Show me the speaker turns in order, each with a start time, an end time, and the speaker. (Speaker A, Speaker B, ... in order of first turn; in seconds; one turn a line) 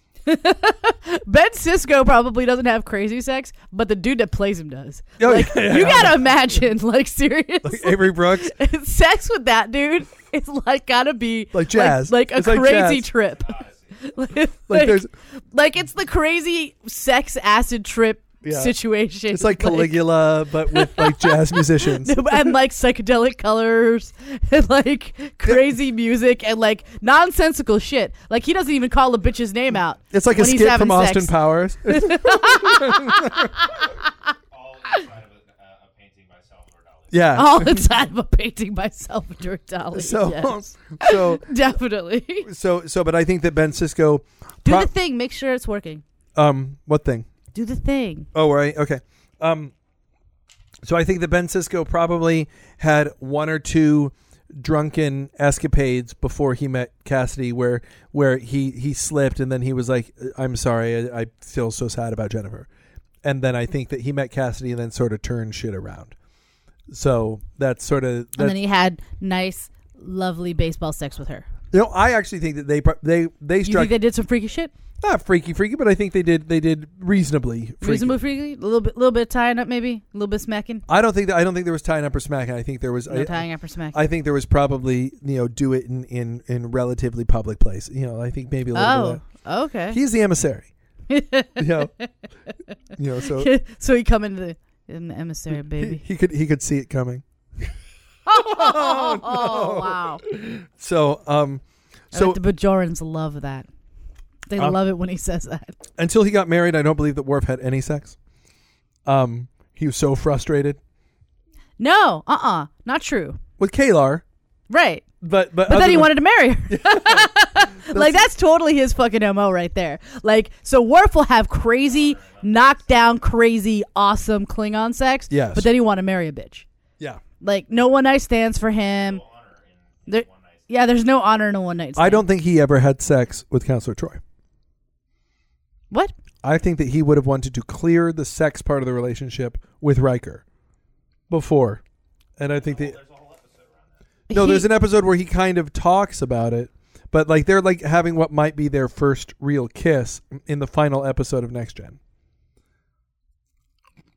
Speaker A: 0.2-34.0
Speaker B: 5.2-6.3
Speaker B: 7.6-8.5
Speaker B: 11.5-13.1
Speaker C: 13.2-14.0
Speaker B: 14.7-15.1
Speaker B: 18.4-18.8
Speaker B: 19.3-22.5
Speaker B: 30.1-33.6
Speaker C: 33.7-37.4
Speaker B: 37.1-37.9
Speaker A: 37.3-42.5
Speaker B: 39.9-41.5
Speaker B: 42.4-44.9
Speaker A: 44.6-46.0
Speaker B: 46.4-47.3
Speaker A: 47.5-48.3
Speaker B: 48.3-49.7
Speaker B: 50.8-62.7
Speaker B: 63.2-66.1
Speaker B: 66.9-68.6
Speaker A: 68.4-71.5
Speaker B: 71.7-73.9
Speaker A: 73.6-74.7
Speaker B: 75.0-78.2
Speaker A: 77.8-80.8
Speaker B: 80.9-89.2
Speaker A: 83.1-84.0
Speaker A: 88.7-90.0
Speaker B: 89.9-90.7
Speaker A: 91.1-92.1
Speaker B: 91.6-91.9
Speaker B: 93.0-93.5
Speaker A: 93.2-96.0
Speaker B: 95.8-97.7
Speaker A: 98.2-100.2
Speaker B: 98.4-102.4
Speaker A: 102.1-103.7
Speaker A: 104.5-105.7
Speaker B: 106.0-108.2
Speaker B: 109.0-110.8
Speaker A: 111.8-113.4
Speaker B: 113.6-114.2
Speaker A: 114.7-115.0
Speaker B: 115.2-116.1
Speaker A: 115.7-126.7
Speaker B: 116.7-118.3
Speaker C: 121.8-122.9
Speaker B: 125.3-125.7
Speaker A: 127.4-129.2
Speaker C: 128.8-130.7
Speaker A: 130.1-132.2
Speaker B: 132.0-134.2
Speaker B: 136.4-140.4
Speaker B: 141.3-141.8
Speaker B: 142.4-143.0
Speaker C: 142.5-144.0
Speaker A: 144.3-144.7
Speaker B: 144.3-152.0